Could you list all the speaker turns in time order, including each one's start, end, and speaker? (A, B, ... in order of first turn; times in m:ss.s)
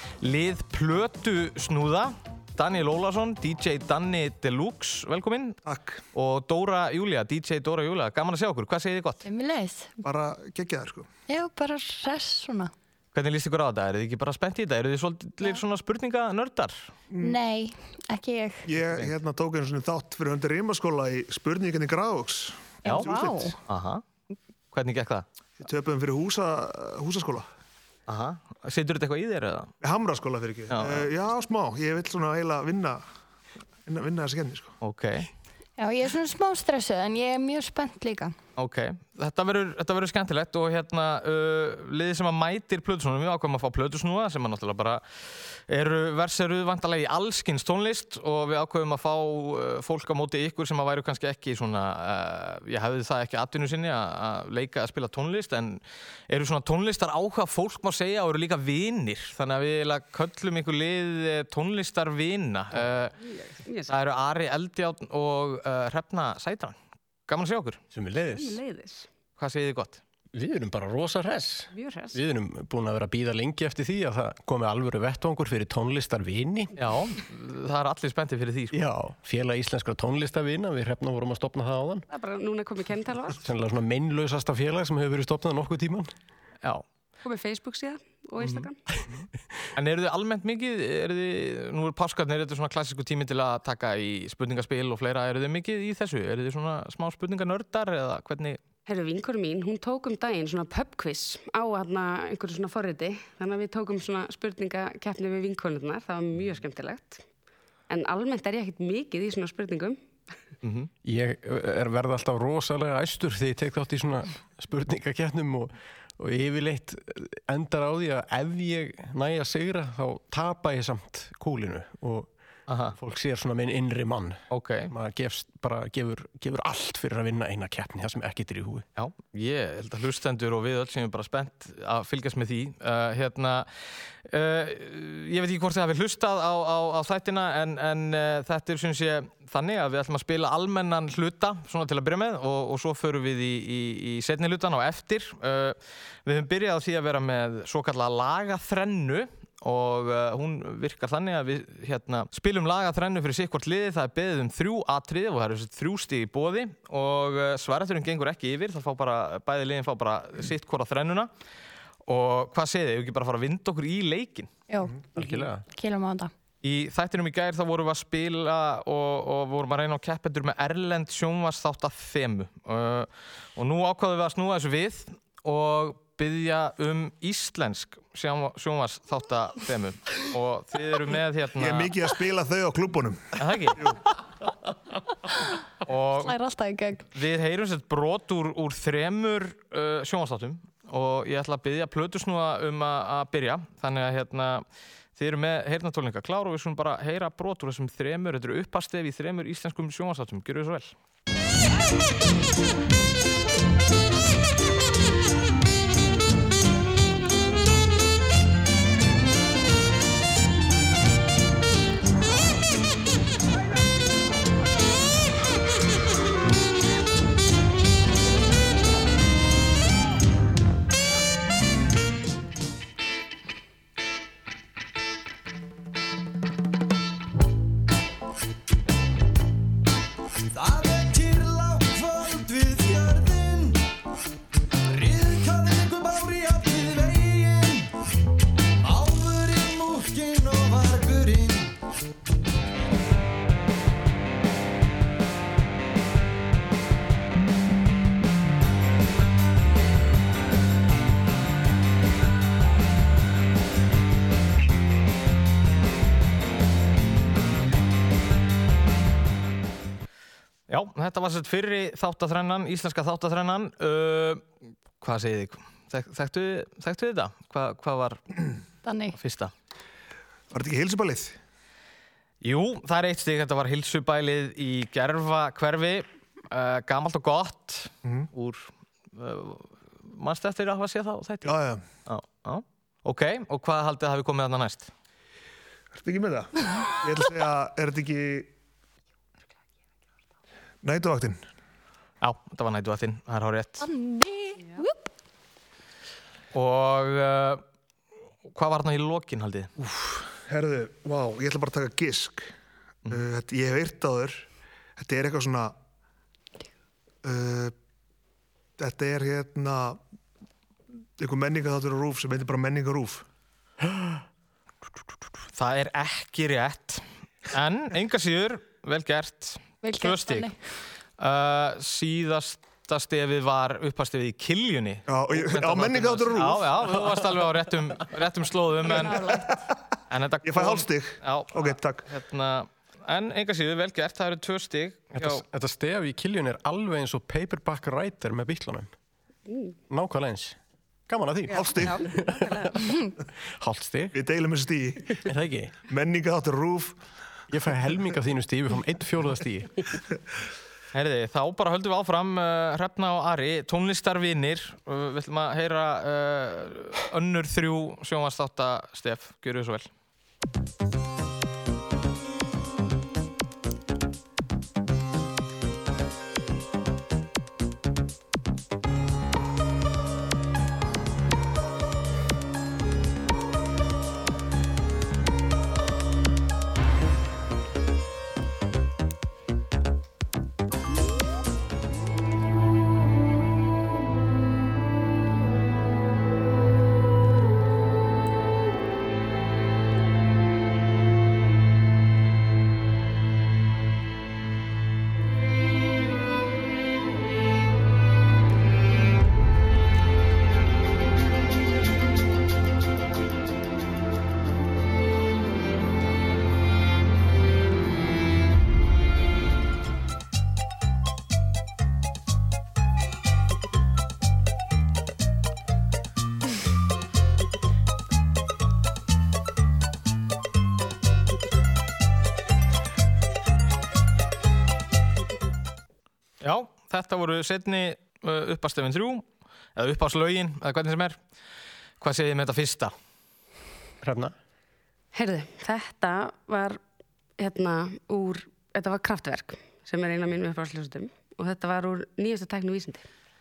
0:00.2-0:05.6 A
0:05.6-0:06.0 B
0:06.1-0:09.3 A
0:09.2-0:10.0 C
0:10.0-0:11.1 B
0:11.3-0:12.7 C
0:13.1-0:16.9 A
0:17.1-0:17.4 B
0:17.2-0:18.6 C
0:18.7-0:23.6 B
0:22.8-0:23.6 C
0:23.7-0:24.0 A
0:24.7-0:25.3 A
0:25.6-0:27.5 B
0:28.1-0:29.7 A
0:29.8-0:33.0 B
0:30.7-0:31.1 A
0:33.9-0:34.7 B
0:34.8-0:35.3 A
0:35.8-0:38.3 C
0:38.6-0:45.0 A
0:45.7-1:03.1 A
1:03.2-1:03.9 D
1:03.9-1:06.8 A
1:07.3-1:07.8 A
1:07.9-1:08.6 E
1:08.3-1:09.1 D
1:09.4-1:10.0 A
1:10.3-1:16.7 E
1:11.7-1:12.2 D
1:16.8-1:18.8 A
1:18.7-1:22.1 E
1:22.1-1:23.4 D
1:23.4-1:26.1 E
1:27.2-1:28.8 D
1:28.4-1:28.7 E
1:29.8-1:38.6 A
1:38.9-1:47.2 D
1:47.9-1:50.0 D
1:50.6-1:50.9 A
1:51.0-2:02.3 E
2:02.7-2:03.0 A
2:03.0-2:08.9 E
2:04.5-2:04.9 A
2:09.0-2:13.7 A
2:14.3-2:41.3 A
2:42.1-2:44.5 A
2:44.7-2:45.0 C
2:45.2-2:45.6 E
2:45.7-2:46.3 C
2:46.6-3:01.9 A
3:01.6-3:04.0 B
3:03.4-3:03.8 A
3:05.9-3:06.4 A
3:06.2-3:07.0 C
3:07.1-3:14.6 A
3:15.2-3:21.0 A
3:50.5-3:53.8 F
3:54.9-3:57.9 F
3:58.8-4:01.8 F
4:20.7-4:24.5 A
4:25.0-4:28.2 A
4:28.8-4:29.2 C
4:29.1-4:29.5 A
4:30.5-4:31.4 B
4:32.4-4:41.5 A
4:38.0-4:38.3 B
4:41.4-4:41.8 B
4:42.0-4:44.9 A
4:45.9-4:48.5 B
4:50.8-4:51.4 B
4:52.2-4:53.9 A
4:53.8-4:55.1 C
4:56.5-4:57.6 A
4:58.5-4:59.7 A
4:59.8-5:02.5 B
5:03.1-5:04.4 B
5:05.0-5:05.8 B
5:07.2-5:07.7 B
5:08.8-5:10.0 B
5:11.2-5:13.2 B
5:15.6-5:20.5 A
5:19.8-5:20.6 C
5:21.2-5:29.4 A
5:25.1-5:27.1 B
5:28.9-5:29.5 C
5:29.0-5:29.4 B
5:30.1-5:35.4 A
5:30.4-5:32.0 B
5:35.2-5:38.9 E
5:39.5-5:39.7 D
5:39.9-5:40.6 E
5:41.1-5:42.6 E
5:41.5-5:42.8 D
5:41.5-5:42.0 B
5:43.6-5:44.2 E
5:44.1-5:45.2 B
5:45.2-5:45.7 E
5:45.9-5:47.0 B
5:47.5-5:49.8 E
5:50.9-5:59.9 A
7:06.4-7:11.2 A
7:12.0-7:12.9 A
7:14.0-7:14.3 E
7:15.1-7:16.8 D
7:17.4-7:23.0 D